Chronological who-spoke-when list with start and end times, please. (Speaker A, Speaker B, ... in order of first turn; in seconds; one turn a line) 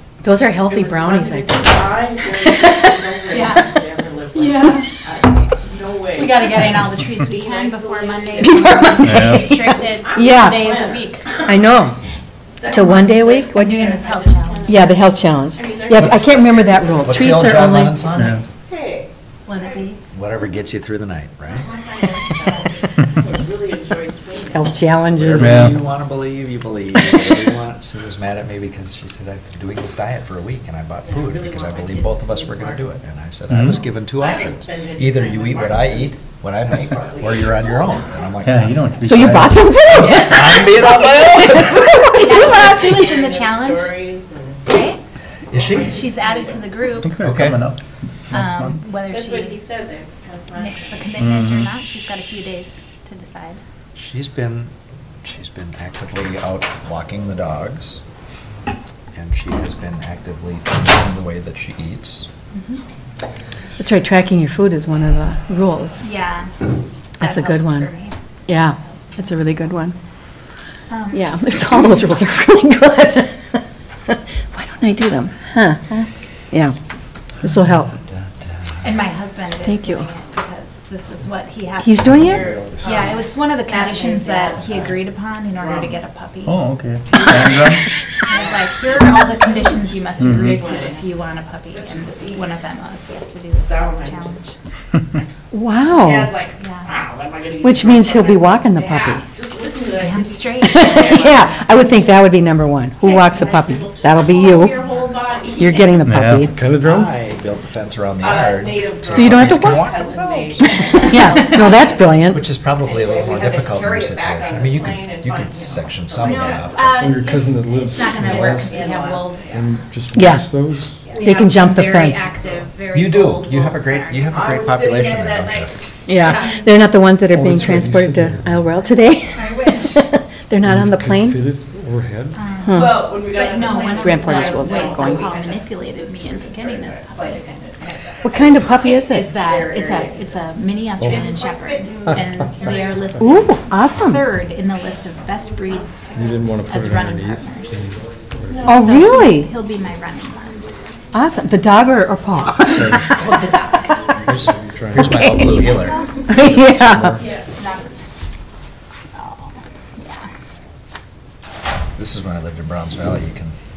Speaker A: 0.2-3.8
Speaker B: 0.7-6.6
Speaker C: 3.3-3.7
Speaker A: 4.3-5.0
Speaker C: 6.1-11.6
Speaker B: 7.2-8.9
Speaker A: 8.4-10.7
Speaker D: 8.9-9.7
Speaker B: 10.1-11.5
Speaker A: 11.4-12.0
Speaker B: 12.6-17.6
Speaker A: 12.7-13.8
Speaker C: 12.8-14.8
Speaker A: 14.6-18.1
Speaker E: 15.9-16.3
Speaker E: 17.0-18.4
Speaker D: 18.1-18.4
Speaker B: 18.7-19.8
Speaker C: 19.4-20.1
Speaker E: 20.1-21.7
Speaker B: 21.5-24.8
Speaker C: 22.0-22.6
Speaker A: 24.5-25.7
Speaker E: 25.1-41.9
Speaker D: 25.4-25.8
Speaker B: 31.0-33.0
Speaker D: 33.5-33.9
Speaker B: 34.1-38.0
Speaker D: 38.4-40.1
Speaker A: 39.0-42.8
Speaker B: 40.1-41.0
Speaker C: 42.1-44.0
Speaker B: 42.4-44.6
Speaker C: 44.6-45.0
Speaker E: 45.5-46.1
Speaker B: 45.5-46.6
Speaker C: 45.8-47.1
Speaker D: 47.0-48.8
Speaker E: 47.2-47.6
Speaker C: 48.3-49.7
Speaker B: 49.0-51.0
Speaker C: 50.5-53.6
Speaker D: 51.2-51.7
Speaker E: 53.9-54.7
Speaker E: 55.2-58.0
Speaker E: 59.1-62.3
Speaker C: 62.5-62.8
Speaker A: 63.8-66.0
Speaker C: 66.0-66.5
Speaker A: 67.2-67.9
Speaker C: 67.2-69.6
Speaker A: 68.5-69.9
Speaker C: 70.9-71.8
Speaker A: 71.1-76.8
Speaker A: 77.4-78.0
Speaker E: 77.5-78.9
Speaker C: 78.8-86.8
Speaker A: 79.6-80.1
Speaker A: 81.8-82.5
Speaker F: 82.0-83.0
Speaker B: 82.1-85.0
Speaker B: 85.6-85.9
Speaker D: 86.4-87.9
Speaker B: 87.2-87.7
Speaker C: 88.2-94.5
Speaker B: 88.3-92.5
Speaker D: 90.2-90.6
Speaker B: 93.5-94.4
Speaker A: 95.5-96.4
Speaker B: 95.8-101.6
Speaker C: 96.5-97.0
Speaker A: 97.6-99.3
Speaker C: 99.9-102.3
Speaker A: 100.6-104.8
Speaker B: 103.0-106.0
Speaker C: 104.5-105.2
Speaker A: 105.4-106.5
Speaker D: 106.0-106.5
Speaker E: 106.4-117.1
Speaker F: 106.5-107.2
Speaker B: 108.2-116.7
Speaker A: 109.1-109.9
Speaker A: 111.0-112.4
Speaker C: 111.3-111.7
Speaker C: 116.2-119.8
Speaker F: 116.9-121.1
Speaker B: 118.2-119.6
Speaker A: 120.1-120.5
Speaker C: 121.0-124.4
Speaker A: 121.2-122.3
Speaker B: 122.3-122.6
Speaker E: 122.9-125.9
Speaker B: 124.3-125.7
Speaker A: 126.1-131.5
Speaker C: 126.1-126.7
Speaker F: 127.3-128.8
Speaker C: 129.3-130.1
Speaker F: 130.6-132.5
Speaker C: 132.3-146.1
Speaker A: 132.6-133.2
Speaker B: 132.7-143.2
Speaker A: 134.0-135.3
Speaker A: 138.2-139.4
Speaker F: 141.0-141.3
Speaker A: 143.2-144.3
Speaker F: 146.1-148.7
Speaker C: 146.7-147.8
Speaker B: 148.5-149.0
Speaker A: 148.6-149.5
Speaker C: 148.6-150.7
Speaker A: 151.1-153.2
Speaker F: 152.7-153.3
Speaker C: 153.1-154.1
Speaker F: 154.1-155.3
Speaker E: 154.2-157.2
Speaker A: 155.0-155.6
Speaker C: 155.3-156.4
Speaker A: 156.3-157.2
Speaker F: 156.8-157.1
Speaker B: 157.2-157.4
Speaker C: 157.5-158.0
Speaker C: 159.2-160.3
Speaker E: 162.0-163.5